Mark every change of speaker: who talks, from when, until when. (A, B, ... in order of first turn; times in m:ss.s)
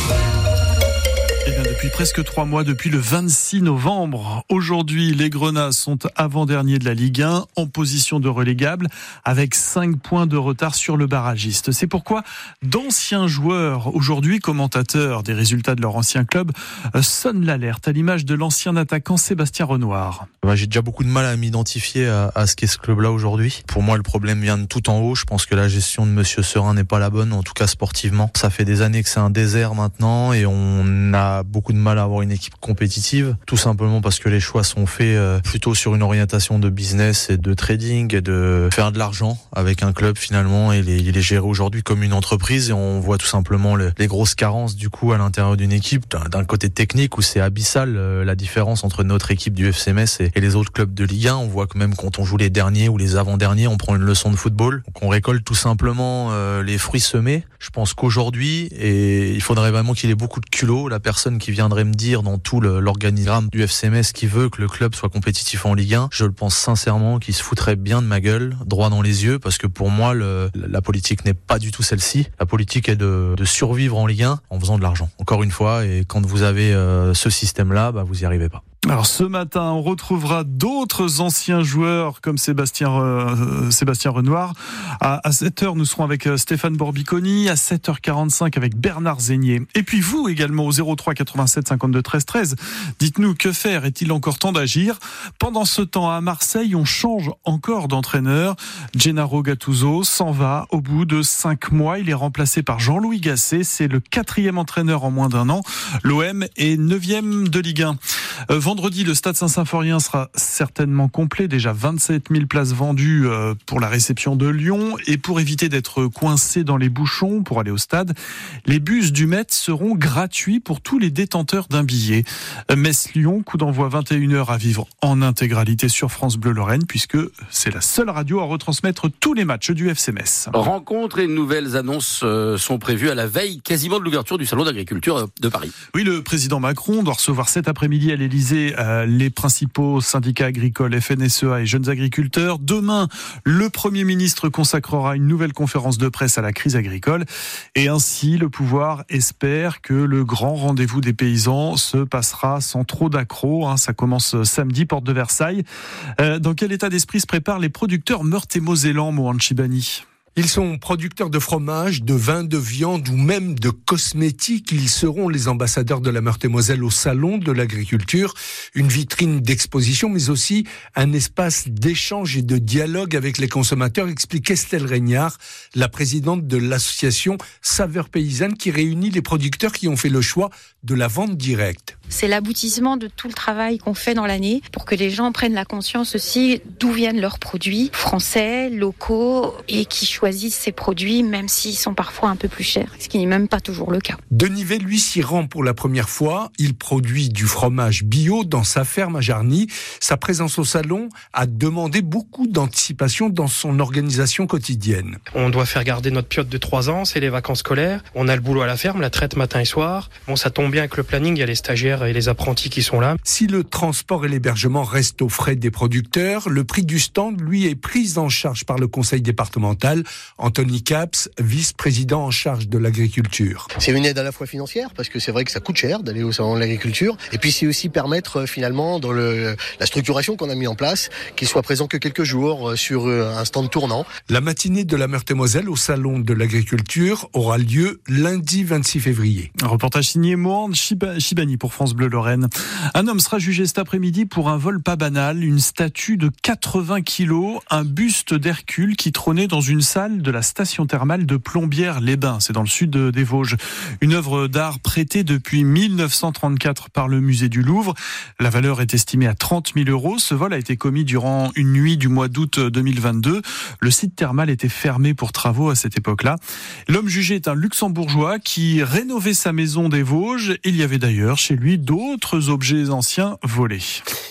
0:01.5-0:20.3 A
0:20.4-1:18.6 B
1:18.9-1:48.0 A
1:48.5-1:58.1 A
1:58.7-2:10.5 A
2:10.5-2:15.7 C
2:15.9-2:35.6 A
2:36.2-2:40.0 A
2:40.4-3:02.0 D
3:02.1-3:14.2 E
3:14.3-3:25.2 D
3:25.3-3:33.2 F
3:33.2-3:43.7 D
3:43.8-3:54.1 G
3:54.3-3:59.5 D
3:59.6-4:34.0 A